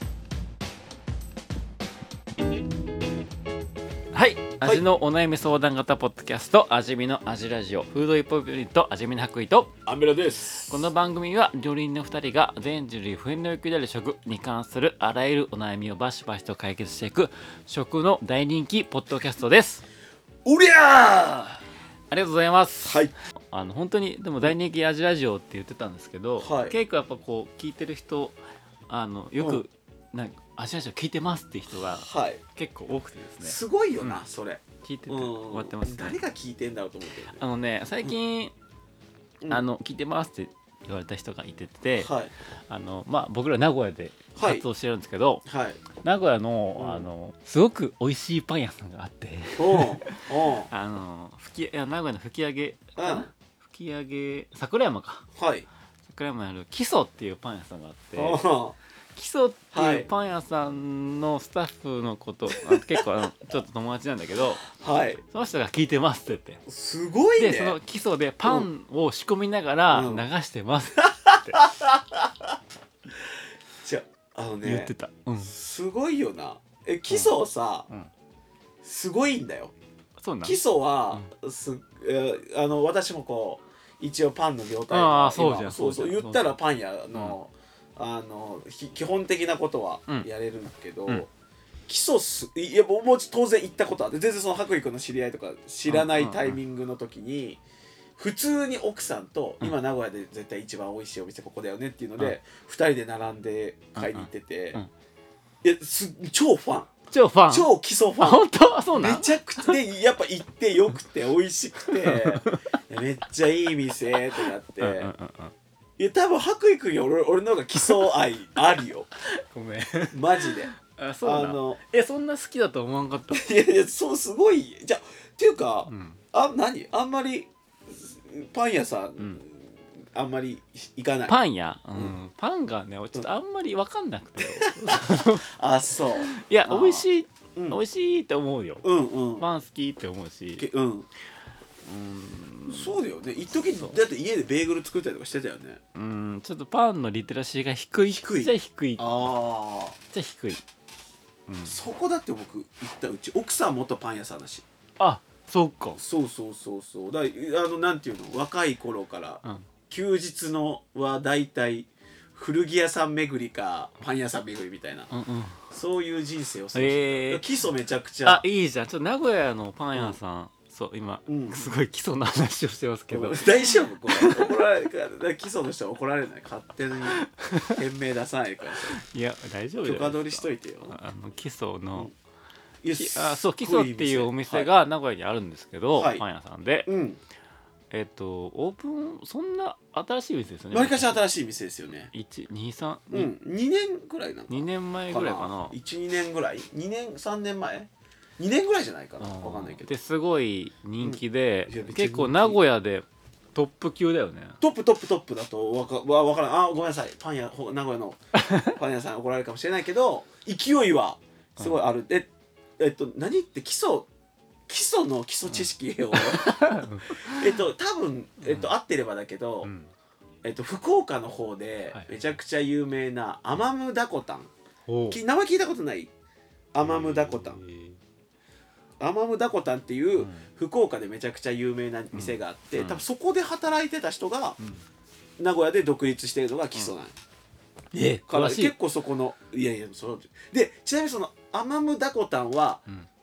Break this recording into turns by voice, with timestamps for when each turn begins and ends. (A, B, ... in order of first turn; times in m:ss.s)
0:04.1-0:09.8 A
0:09.9-0:10.9 B
0:10.7-0:19.8 A
0:20.4-0:21.6 B
0:22.1-0:23.0 A
0:22.8-0:23.1 B
0:23.5-0:34.2 A
0:26.4-0:26.8 B
0:29.4-0:29.6 B
0:32.0-0:32.4 B
0:33.4-0:37.4 B
0:34.8-0:36.2 A
0:37.3-0:38.5 A
0:39.5-0:42.1 A
0:42.0-0:42.3 B
0:42.7-0:45.5 A
0:44.4-0:44.6 B
0:45.5-0:45.8 B
0:46.0-0:55.3 A
0:46.8-0:47.1 B
0:49.6-0:50.7 B
0:53.0-0:53.3 B
0:55.4-0:55.7 B
0:56.0-0:58.4 A
0:58.2-0:58.8 B
0:59.1-1:04.7 A
0:59.7-1:00.1 B
1:02.6-1:03.0 B
1:04.7-1:05.2 B
1:05.2-1:06.6 A
1:06.7-1:07.8 B
1:07.4-1:11.6 A
1:08.4-1:08.7 B
1:09.9-1:10.3 B
1:11.3-1:12.6 B
1:13.1-1:17.9 B
1:14.6-1:15.5 A
1:17.1-1:17.4 A
1:18.8-1:19.7 B
1:20.2-1:20.6 A
1:20.4-1:31.3 B
1:24.9-1:26.6 A
1:31.9-1:37.6 B
1:35.9-1:36.6 A
1:38.2-1:44.8 B
1:44.0-1:44.9 A
1:45.6-1:46.9 B
1:47.1-1:47.7 A
1:47.5-1:55.1 B
1:48.2-1:49.8 A
1:52.0-1:52.8 A
1:54.8-1:55.5 A
1:56.0-1:59.1 B
1:59.2-2:03.5 A
2:00.1-2:00.7 B
2:01.2-2:01.8 B
2:03.3-2:11.4 B
2:05.9-2:06.2 A
2:11.3-2:15.5 A
2:14.4-2:17.8 B
2:16.2-2:20.7 A
2:18.8-2:19.5 B
2:20.6-2:21.1 B
2:21.8-2:23.0 A
2:22.7-2:25.8 B
2:26.0-2:29.3 A
2:28.2-2:30.0 B
2:30.1-2:30.6 A
2:31.5-2:31.8 A
2:31.6-2:34.6 B
2:35.0-2:36.0 A
2:36.0-2:45.1 B
2:45.1-2:45.6 A
2:45.7-2:48.4 B
2:46.8-2:47.4 A
2:48.2-2:53.5 A
2:51.3-2:51.6 B
2:53.1-2:59.0 B
2:54.1-2:54.5 A
2:57.1-2:57.8 A
2:58.9-3:02.1 A
2:59.8-3:01.0 B
3:02.8-3:04.7 B
3:02.9-3:06.9 A
3:06.0-3:06.2 B
3:06.9-3:07.2 B
3:07.9-3:11.2 A
3:10.7-3:12.1 B
3:12.1-3:13.4 A
3:13.1-3:19.9 B
3:14.5-3:15.8 A
3:19.2-3:24.6 A
3:21.0-3:22.6 B
3:24.6-3:34.1 B
3:28.4-3:28.7 A
3:34.7-3:39.7 B
3:35.5-3:37.5 A
3:38.4-3:38.7 A
3:39.6-3:39.9 A
3:40.4-3:44.5 B
3:41.9-3:42.2 A
3:44.9-3:45.2 A
3:45.1-3:46.1 B
3:46.7-3:47.6 B
3:46.8-3:48.0 A
3:49.0-3:54.6 B
3:50.2-3:50.5 A
3:52.1-3:53.0 A
3:55.4-3:57.2 B
3:57.9-3:58.8 A
3:58.3-4:02.8 B